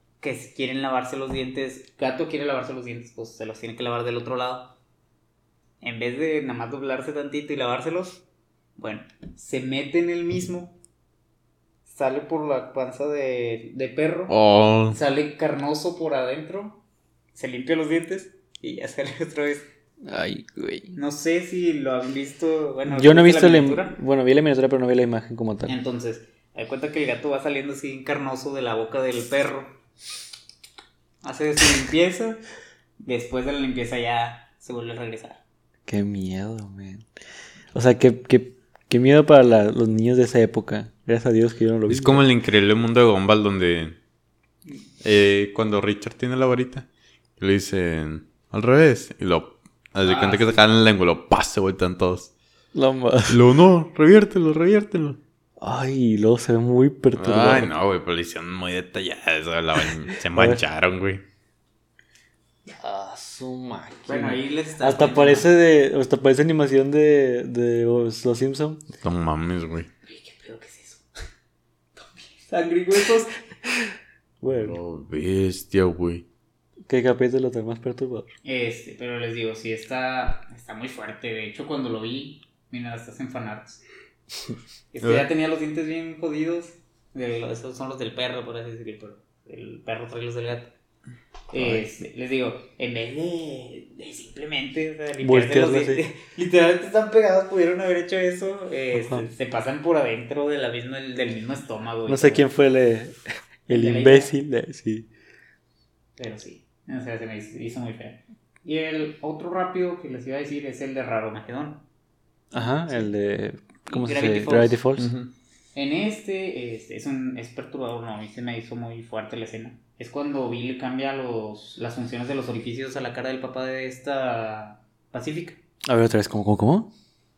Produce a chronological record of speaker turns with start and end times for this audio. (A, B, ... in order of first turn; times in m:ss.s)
0:00.2-0:04.7 A
0:05.8-0:08.2 A
0:08.8-0:10.8 A
0:11.9-0:14.4 A
0:14.3-0:15.0 B
0:14.9-0:16.8 A
0:17.4-0:19.7 A
0:20.0-0:20.9 C
0:20.9-0:24.0 A
0:22.9-0:25.7 C
0:25.7-0:29.7 A
0:31.2-0:32.4 A
0:33.0-0:35.4 A
0:35.9-0:37.1 C
0:37.7-0:42.2 C
0:41.9-0:44.0 B
0:45.0-0:46.9 B
0:47.4-0:52.3 B
0:50.0-0:50.6 A
0:52.7-0:53.4 C
0:53.3-0:55.2 B
0:55.6-0:57.7 C
0:57.2-1:01.2 B
1:00.3-1:00.6 C
1:02.7-1:08.8 C
1:04.1-1:05.5 A
1:09.0-1:09.9 B
1:10.1-1:11.0 A
1:12.0-1:13.4 A
1:14.4-1:14.8 C
1:14.5-1:16.2 B
1:16.9-1:18.3 C
1:18.4-1:23.8 A
1:24.9-1:30.7 A
1:25.0-1:25.3 B
1:31.5-1:42.5 A
1:31.6-1:31.8 C
1:35.2-1:36.0 C
1:39.0-1:39.3 C
1:42.1-1:45.1 C
1:43.7-1:44.3 A
1:46.2-1:51.8 A
1:52.5-1:55.1 C
1:53.9-1:54.8 A
1:55.0-1:55.3 B
1:55.8-2:05.6 A
2:05.9-2:06.9 C